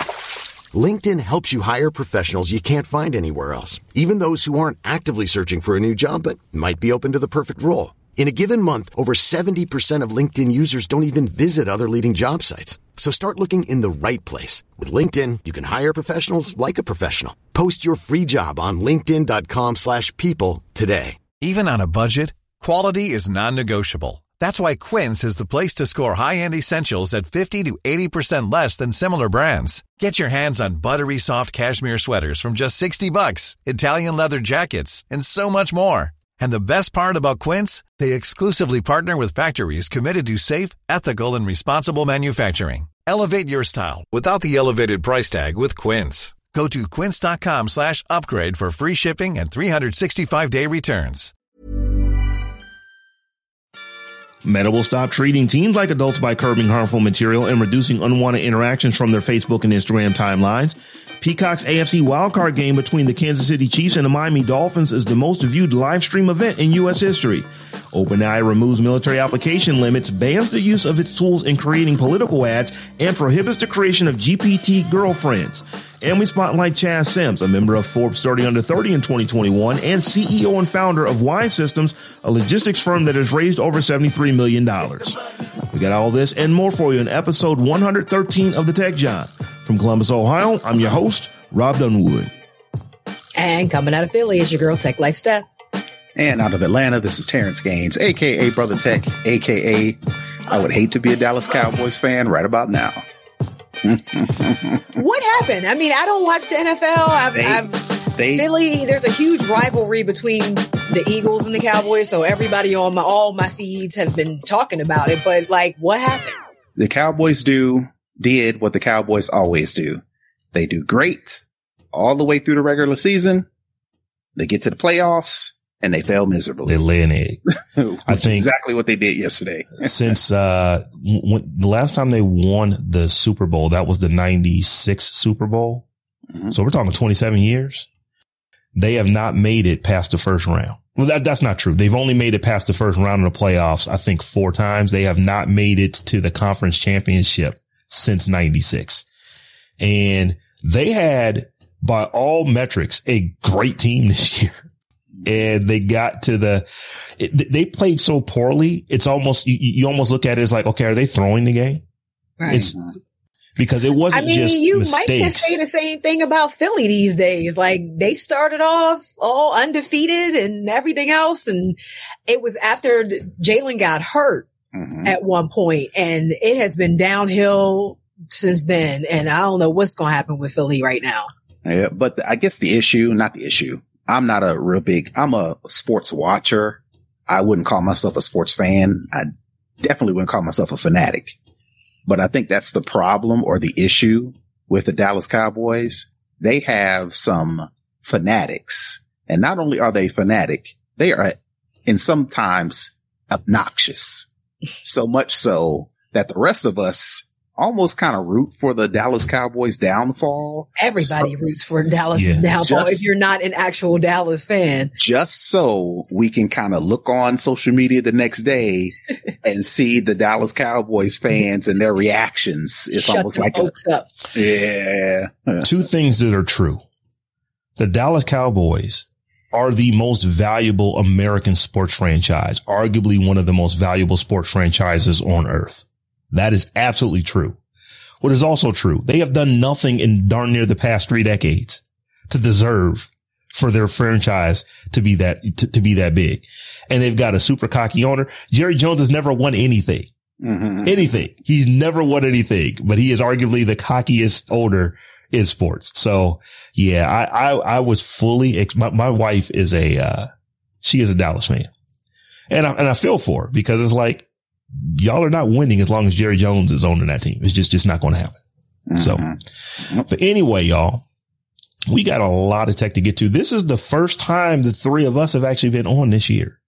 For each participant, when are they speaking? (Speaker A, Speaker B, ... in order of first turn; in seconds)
Speaker A: 0.7-21.2
Speaker B: 21.4-51.3
Speaker C: 54.4-85.2, 85.7-92.3, 126.7-127.4, 128.1-128.5, 129.8-135.8, 136.5-137.9, 138.8-149.0, 149.8-154.6, 155.2-161.8, 162.5-162.8, 163.6-165.6, 212.2-212.4, 225.6-226.8, 227.8-237.6, 238.2-250.1, 250.8-260.3, 260.8-261.7, 262.5-268.4, 268.9-269.2, 270.0-271.0, 271.9-276.6
Speaker D: 93.3-95.4, 104.9-107.8, 108.3-116.4, 162.4-162.7, 164.1-171.8, 172.3-174.5, 175.0-181.3, 210.8-214.9, 223.0-224.1
Speaker E: 96.2-103.0, 103.8-104.8, 107.3-108.5, 116.8-120.0, 120.5-123.5, 124.3-126.8, 127.7-130.1, 162.5-162.8, 174.7-175.1, 181.6-189.3, 189.8-191.3, 192.1-204.3, 204.8-211.3, 212.5-213.0, 215.0-223.7, 224.3-225.6, 250.4-251.2, 268.9-269.4